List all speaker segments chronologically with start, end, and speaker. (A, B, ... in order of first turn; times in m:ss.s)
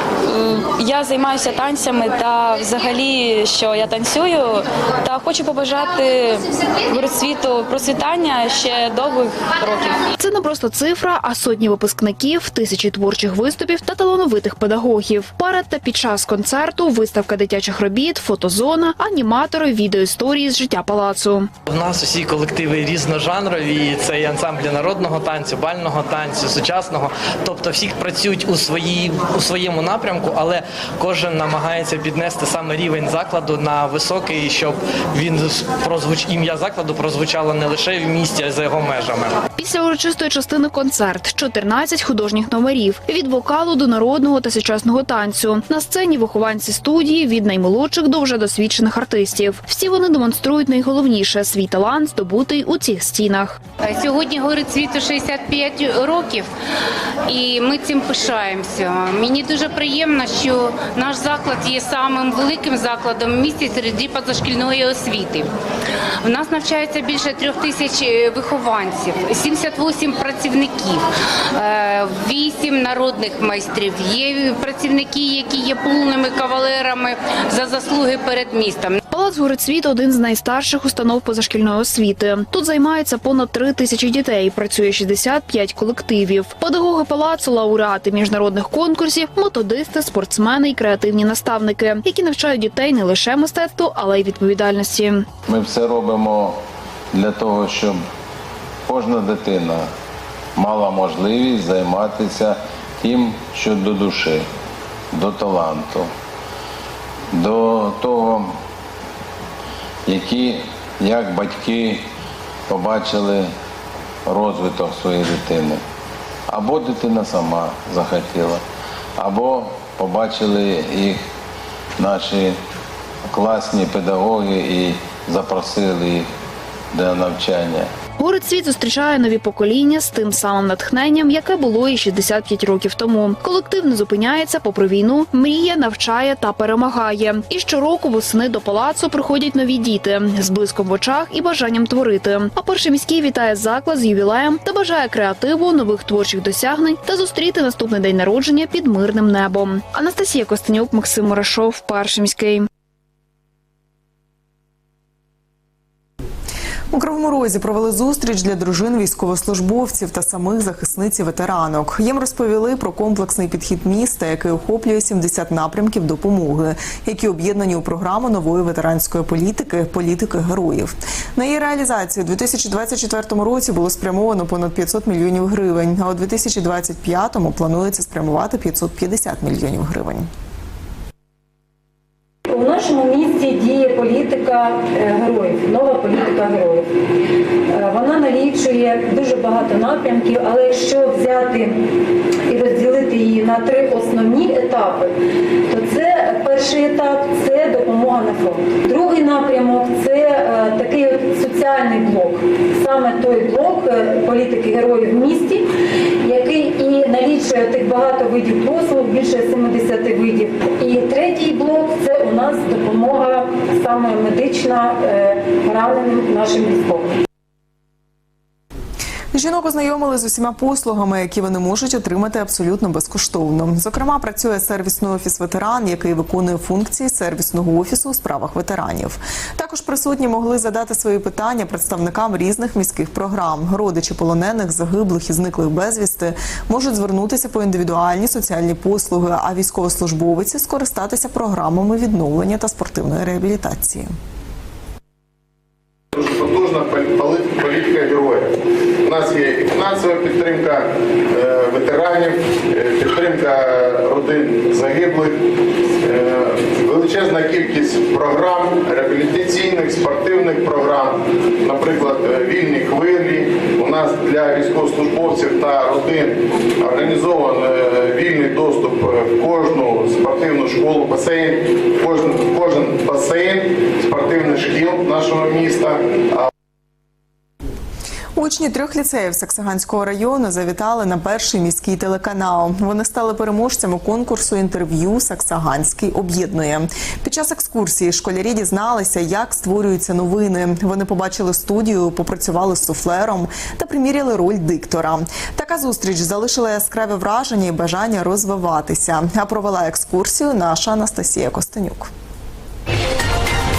0:00.2-0:10.0 A
0:10.2-0:21.5 B
0:21.7-0:39.4 C
0:39.6-0:53.6 B
0:55.0-0:55.4 D
0:57.3-1:01.2 D
1:04.1-1:04.4 D
1:06.3-1:10.5 D
1:12.2-1:16.6 D
1:17.6-1:18.7 D
1:19.1-1:35.3 B
1:35.5-1:36.6 E
1:37.1-1:38.0 E
1:38.9-1:39.9 E
1:40.6-1:44.5 E
1:45.1-1:46.1 E
1:47.3-1:48.6 E
1:50.1-1:52.0 E
1:52.7-1:53.5 E
1:54.3-1:55.8 E
1:56.5-1:58.6 E
1:59.2-2:01.2 E
2:02.0-2:02.6 E
2:03.3-2:06.3 E
2:06.9-2:07.9 E
2:08.2-2:32.7 B
2:36.9-3:00.3 F
3:02.5-3:06.9 G
3:07.7-3:11.9 G
3:12.5-3:15.1 G
3:15.7-3:25.6 G
3:26.2-3:37.1 G
3:39.3-4:04.1 F
4:06.1-4:15.4 H
4:16.0-4:36.5 H
4:38.4-5:02.1 F